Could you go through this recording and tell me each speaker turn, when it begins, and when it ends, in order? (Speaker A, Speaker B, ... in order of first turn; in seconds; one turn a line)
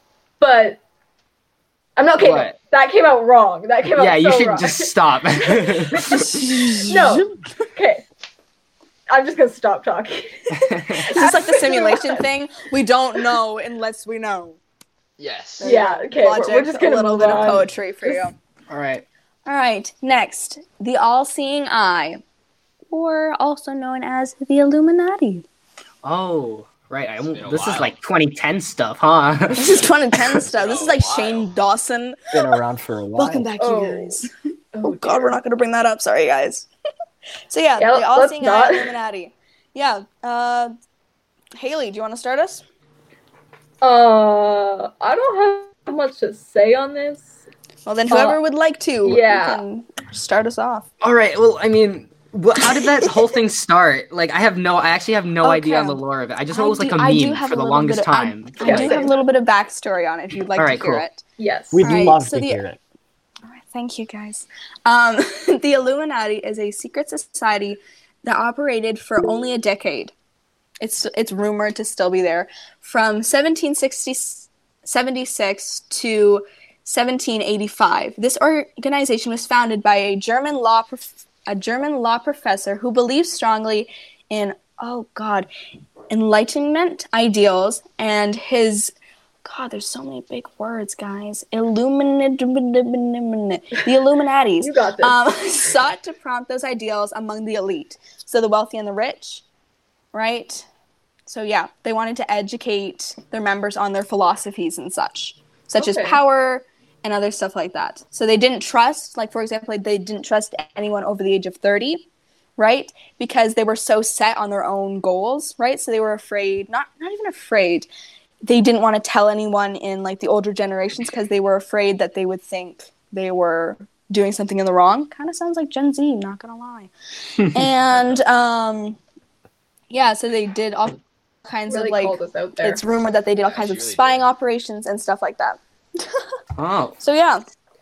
Speaker A: 0.4-0.8
Speaker A: 2.0-6.3
Speaker B: 2.2-2.6
Speaker B: 3.9-6.3
Speaker C: 6.1-7.5
Speaker A: 6.8-8.0
Speaker A: 9.1-12.2
Speaker B: 10.5-11.1
Speaker C: 11.1-14.6
Speaker D: 15.2-15.8
Speaker C: 15.6-18.3
Speaker A: 15.6-18.3
Speaker B: 18.7-19.0
Speaker C: 19.4-22.2
Speaker C: 22.9-25.4
Speaker B: 26.0-30.4
Speaker D: 27.2-28.0
Speaker C: 29.6-32.3
Speaker D: 30.5-31.6
Speaker E: 32.3-33.5
Speaker C: 33.1-34.3
Speaker A: 33.6-34.2
Speaker A: 34.7-35.4
Speaker C: 34.8-36.7
Speaker C: 37.5-40.7
Speaker A: 37.8-38.9
Speaker C: 41.5-42.6
Speaker A: 43.8-47.4
Speaker C: 47.9-50.9
Speaker A: 48.1-48.4
Speaker A: 49.0-49.6
Speaker B: 51.0-59.0
Speaker C: 55.4-61.2
Speaker A: 58.6-59.1
Speaker B: 60.5-61.0
Speaker A: 61.4-61.8
Speaker E: 61.7-62.8
Speaker C: 61.8-62.6
Speaker C: 63.5-70.1
Speaker C: 70.8-85.5
Speaker C: 86.1-88.9
Speaker C: 89.4-99.4
Speaker A: 94.6-95.2
Speaker C: 100.1-100.6
Speaker C: 101.3-112.0
Speaker A: 105.8-106.2
Speaker C: 112.6-117.9
Speaker C: 118.4-129.0
Speaker C: 129.9-136.2
Speaker A: 131.7-132.8
Speaker D: 133.4-134.3
Speaker B: 136.6-137.0
Speaker C: 137.0-137.4